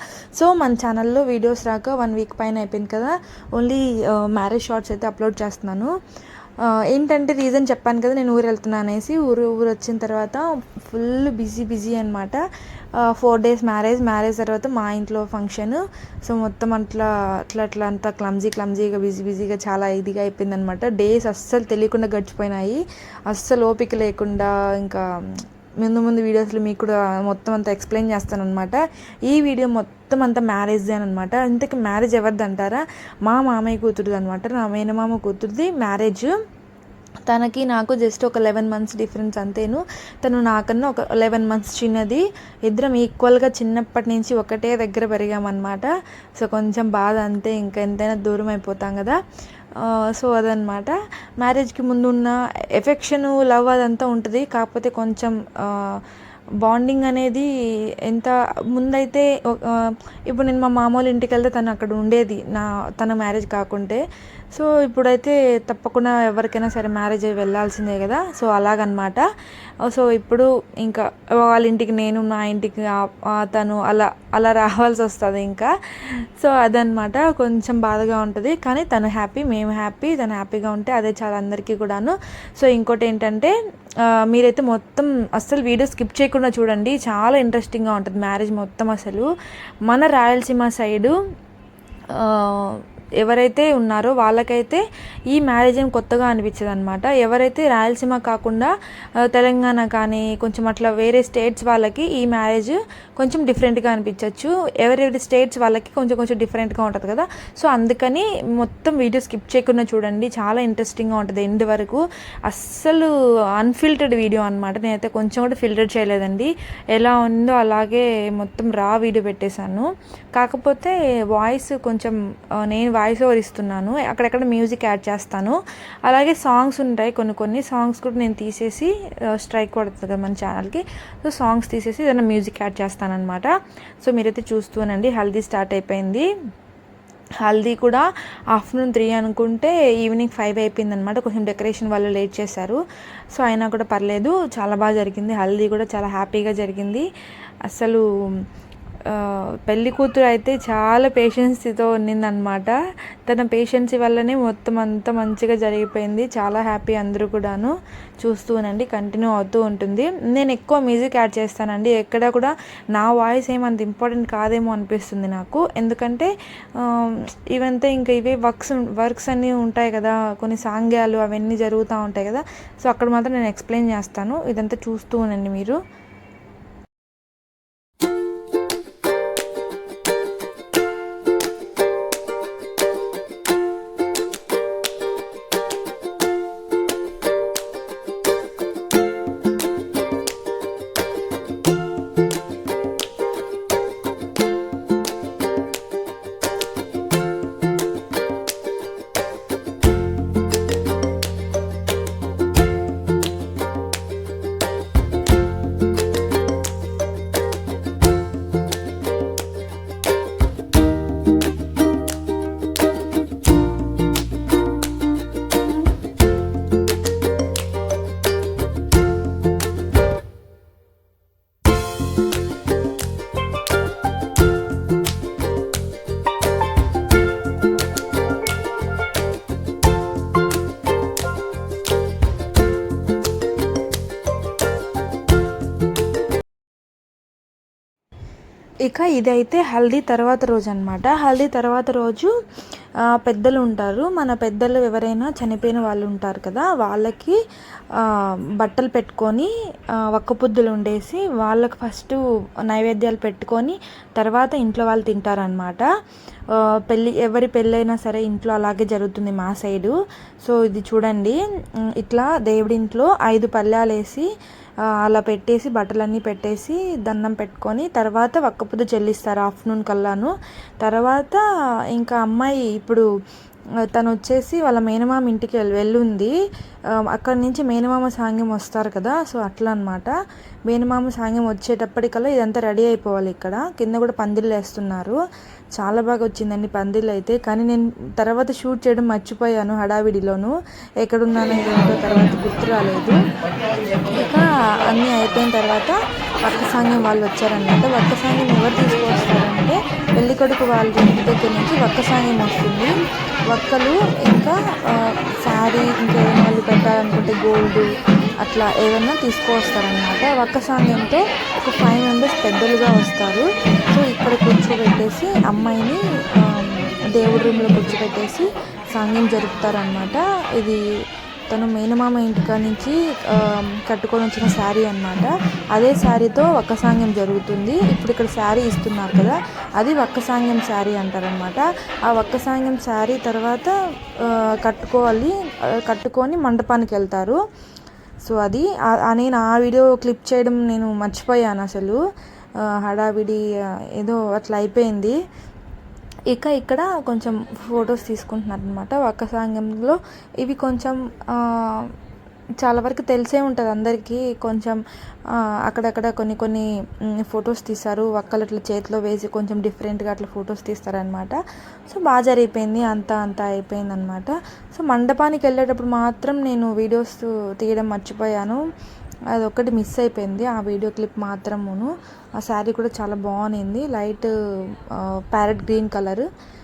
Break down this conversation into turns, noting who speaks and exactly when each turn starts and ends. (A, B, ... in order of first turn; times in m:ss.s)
0:00.4-0:05.9 A
0:06.6-0:12.4 A
0:13.0-0:36.3 A
0:37.3-0:49.2 A
0:49.8-0:56.0 A
0:56.6-0:57.5 A
0:58.1-1:04.0 A
1:04.5-1:09.3 A
1:09.8-1:23.5 A
1:24.1-1:29.3 A
1:29.9-1:31.2 A
1:32.1-1:38.7 A
1:39.2-2:16.3 A
2:17.4-2:22.8 A
2:23.3-2:27.1 A
2:27.7-2:28.4 A
2:29.1-2:55.8 A
3:58.8-4:02.3 A
4:03.1-4:07.4 A
4:08.0-4:09.5 A
4:10.1-4:15.9 A
4:16.5-4:24.3 A
4:24.9-4:31.4 A
4:31.9-4:33.1 A
4:33.9-4:36.3 A
4:37.1-4:40.2 A
4:40.7-4:45.2 A
4:45.8-4:53.2 A
4:54.0-5:03.0 A
5:03.5-5:07.9 A
5:08.4-5:20.8 A
5:21.5-5:37.4 A
5:38.2-5:42.0 A
5:42.6-5:43.4 A
5:44.0-5:45.2 A
5:46.3-5:52.0 A
5:52.6-6:08.6 A
6:09.3-6:16.3 A